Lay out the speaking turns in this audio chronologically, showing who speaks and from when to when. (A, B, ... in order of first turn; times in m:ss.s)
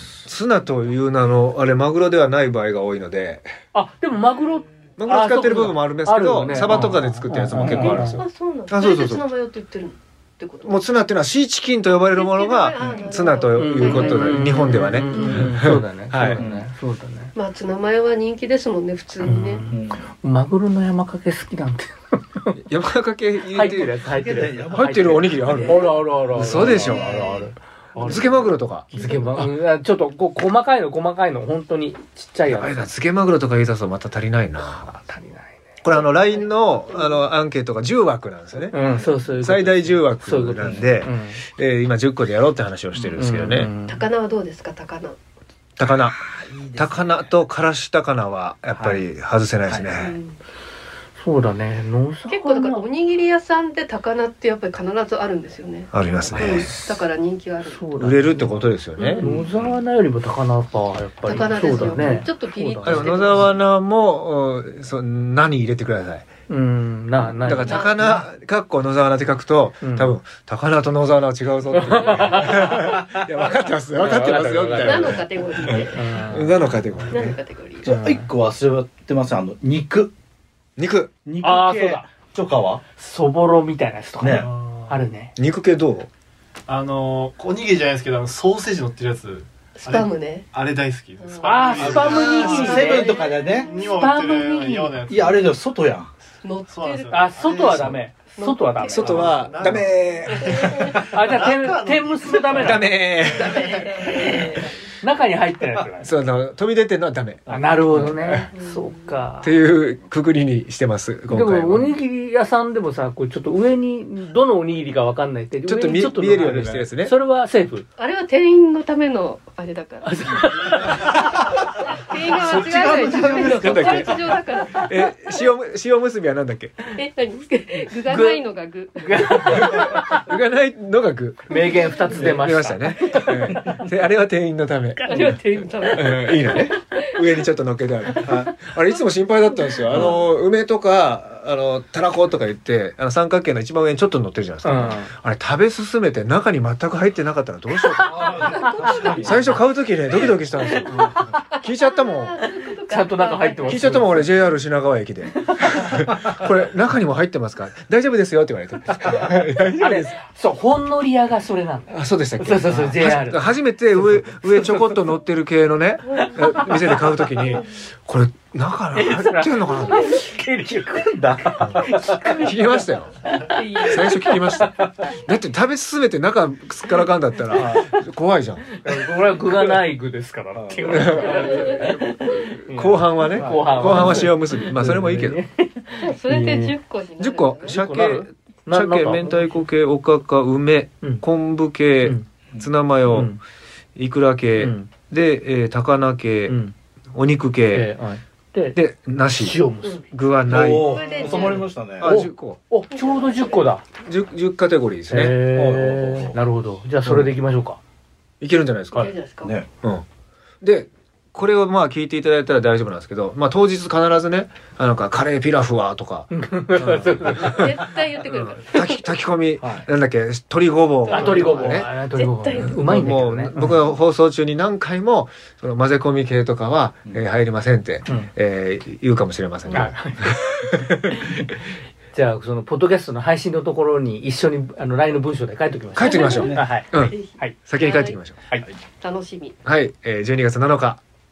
0:00.2-0:03.4 A
0:03.7-0:08.2 B
0:05.0-0:09.3 A
0:07.5-0:08.0 C
0:07.6-0:10.9 D
0:10.6-0:16.5 A
0:11.9-0:15.6 D
0:12.8-0:13.1 C
0:13.6-0:17.3 B
0:16.4-0:16.7 C
0:17.4-0:19.6 D
0:19.2-0:22.5 B
0:19.7-0:20.1 C
0:22.6-0:27.1 A
0:23.5-0:32.9 B
0:24.1-0:27.5 C
0:25.4-0:25.9 D
0:26.7-0:27.5 D
0:28.0-0:28.3 D
0:28.0-0:29.5 A
0:32.5-0:34.9 A
0:34.6-0:35.6 B
0:35.8-0:38.8 A
0:35.9-0:37.3 D
0:38.7-0:41.4 B
0:39.4-0:43.7 A
0:43.2-0:44.1 B
0:43.9-0:45.2 D
0:45.8-0:50.2 A
0:46.2-0:47.3 C
0:48.8-0:49.0 C
0:49.9-0:50.4 D
0:51.2-0:52.8 B
0:52.3-0:57.9 D
0:55.9-0:56.7 A
0:56.3-0:57.0 B
0:57.6-1:03.4 B
0:58.0-0:59.3 A
0:59.0-0:59.3 D
0:59.3-0:59.6 C
1:01.2-1:03.5 D
1:02.8-1:06.3 A
1:06.5-1:08.2 B
1:07.4-1:17.4 A
1:07.6-1:08.0 D
1:09.8-1:10.2 B
1:11.7-1:12.8 B
1:14.0-1:15.3 B
1:14.7-1:16.2 D
1:15.8-1:16.7 B
1:17.1-1:17.9 D
1:17.8-1:20.1 C
1:17.8-1:18.3 B
1:20.8-1:21.1 A
1:21.2-1:22.8 C
1:21.4-1:22.1 B
1:23.0-1:25.3 B
1:24.2-1:24.5 C
1:24.3-1:25.0 E
1:25.4-1:26.1 A
1:26.7-1:35.6 E
1:29.8-1:30.5 D
1:31.2-1:32.2 D
1:31.4-1:35.0 B
1:31.8-1:33.8 C
1:32.9-1:33.9 D
1:35.0-1:36.1 C
1:36.4-1:41.0 D
1:36.7-1:38.1 E
1:37.1-1:39.1 B
1:38.8-1:44.3 E
1:38.9-1:41.0 A
1:40.6-1:41.0 C
1:41.1-1:42.9 B
1:42.6-1:43.7 A
1:43.5-1:44.7 D
1:43.9-1:46.1 B
1:46.0-1:48.5 A
1:47.5-1:49.6 B
1:48.5-1:49.2 D
1:49.4-1:52.0 A
1:51.3-1:57.9 B
1:55.6-1:57.1 A
1:58.0-2:01.1 D
2:00.0-2:01.4 B
2:01.8-2:05.1 D
2:01.9-2:04.2 C
2:03.1-2:04.2 A
2:04.7-2:06.8 A
2:06.9-2:09.9 D
2:08.1-2:08.4 B
2:09.0-2:10.2 B
2:09.4-2:15.3 A
2:11.5-2:13.8 B
2:15.0-2:17.2 D
2:15.1-2:15.4 B
2:15.9-2:28.4 A
2:19.6-2:20.1 D
2:19.9-2:20.2 B
2:24.6-2:25.1 B
2:28.1-2:29.6 D
2:28.2-2:28.5 C
2:28.8-2:29.2 B
2:29.0-2:29.4 C
2:29.1-2:32.4 A
2:30.6-2:34.3 D
2:30.8-2:31.2 B
2:32.8-2:34.3 B
2:33.7-2:40.2 A
2:35.5-2:35.9 B
2:39.0-2:45.2 B
2:41.9-2:50.2 A
2:46.1-2:47.6 B
2:49.0-2:55.1 B
2:51.1-2:52.2 C
2:51.6-2:53.2 A
2:53.8-2:58.7 A
2:57.5-2:58.0 B
2:57.5-2:57.8 C
2:58.7-3:06.7 B
3:00.6-3:01.2 C
3:00.9-3:02.2 A
3:02.7-3:05.4 A
3:03.3-3:04.3 C
3:05.9-3:07.8 D
3:07.2-3:13.4 A
3:07.6-3:09.7 B
3:13.1-3:13.4 B
3:14.0-3:16.6 A
3:14.6-3:14.9 B
3:16.5-3:16.8 B
3:17.1-3:17.9 A
3:17.7-3:20.0 B
3:18.8-3:19.6 A
3:20.1-3:20.9 A
3:20.5-3:22.1 C
3:20.7-3:21.7 D
3:21.2-3:23.8 B
3:22.0-3:22.6 A
3:22.9-3:23.7 D
3:24.0-3:25.4 A
3:25.1-3:27.8 B
3:25.5-3:26.4 C
3:27.0-3:27.3 A
3:28.4-3:29.1 A
3:29.0-3:29.6 D
3:30.6-3:37.7 A
3:36.3-3:37.7 B
3:37.3-3:38.9 D
3:38.2-3:41.9 A
3:39.6-3:39.9 C
3:41.1-3:42.8 D
3:41.1-3:43.8 B
3:42.6-3:51.3 A
3:48.0-3:48.3 B
3:49.7-3:50.4 B
3:52.1-3:57.6 B
3:56.0-3:58.2 D
3:56.0-3:58.4 A
3:59.0-3:59.6 D
3:59.6-4:01.0 A